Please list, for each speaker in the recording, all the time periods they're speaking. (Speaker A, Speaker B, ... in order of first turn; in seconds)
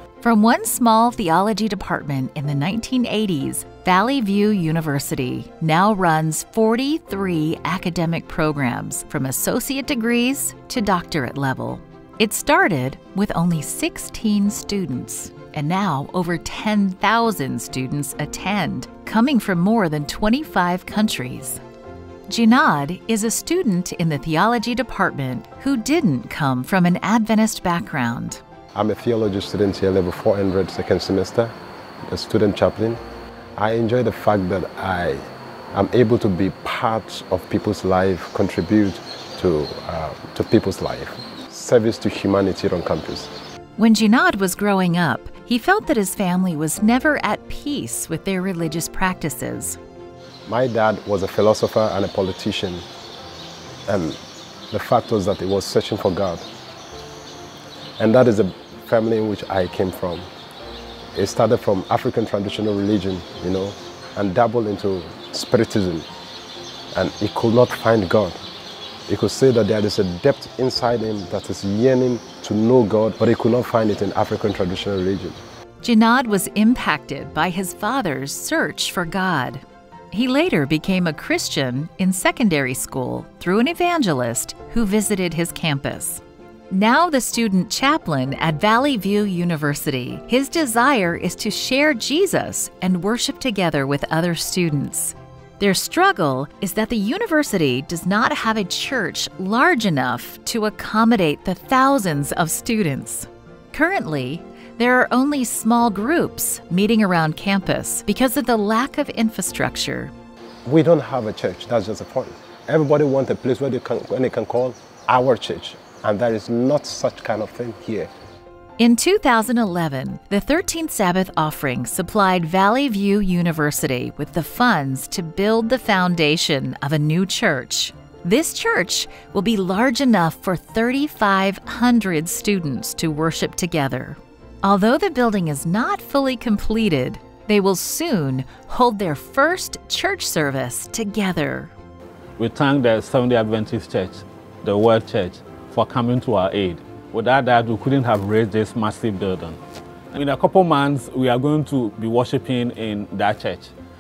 Speaker A: 0.2-21.6, 22.3-28.4, 43.8-49.8, 75.8-110.1, 118.8-141.7
Speaker B: 28.7-31.5, 32.1-33.0, 33.6-43.3, 50.5-52.9, 53.9-54.2, 54.7-56.5, 58.0-60.3, 61.1-66.1, 66.9-68.4, 69.1-75.4, 110.7-118.1
Speaker C: 142.4-149.6, 150.1-153.7